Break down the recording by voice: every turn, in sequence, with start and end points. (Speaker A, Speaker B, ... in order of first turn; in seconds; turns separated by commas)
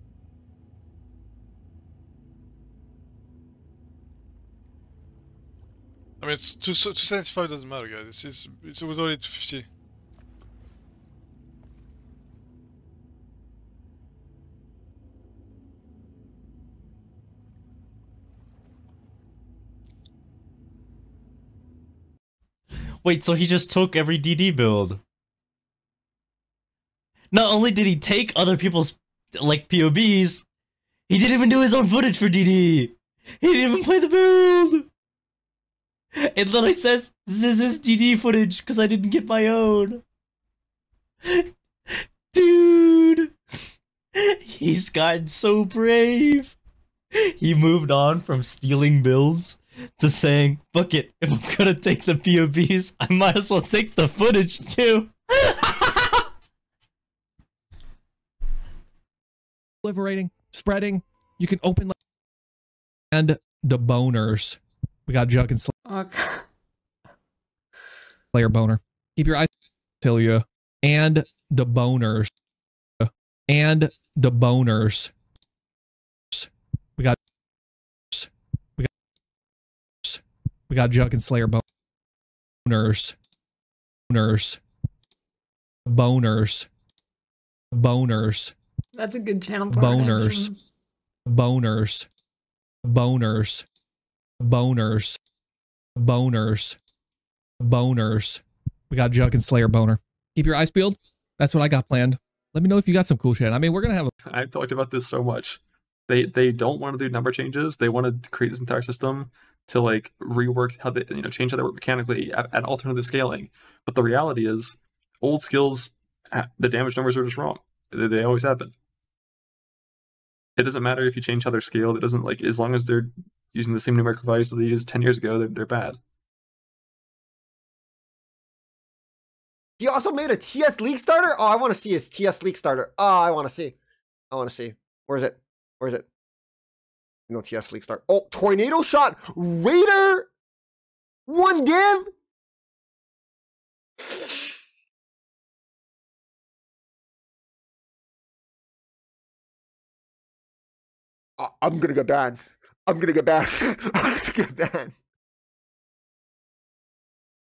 Speaker A: 6.2-9.7, Speaker B: 23.0-25.0, Speaker B: 27.3-30.4, Speaker B: 31.1-34.9, Speaker B: 36.1-40.0, Speaker B: 42.3-43.3, Speaker B: 44.2-46.5, Speaker B: 47.2-56.0, Speaker C: 59.8-62.0, Speaker C: 63.1-65.7, Speaker D: 65.9-66.4, Speaker C: 68.3-69.5, Speaker C: 70.0-72.3, Speaker C: 73.0-75.1, Speaker C: 76.3-77.2, Speaker C: 78.1-78.9, Speaker C: 80.0-81.6, Speaker C: 82.6-83.1, Speaker C: 84.1-84.6, Speaker C: 85.9-86.7, Speaker C: 87.7-88.5, Speaker D: 88.9-90.5, Speaker C: 89.7-90.5, Speaker C: 91.3-92.1, Speaker C: 92.8-93.6, Speaker C: 94.4-95.2, Speaker C: 96.0-96.8, Speaker C: 97.6-104.1, Speaker E: 104.3-118.7, Speaker E: 120.6-126.0, Speaker F: 129.8-133.7, Speaker F: 134.3-136.0, Speaker F: 137.3-140.3, Speaker F: 141.3-142.1, Speaker F: 144.1-144.4, Speaker F: 151.4-154.9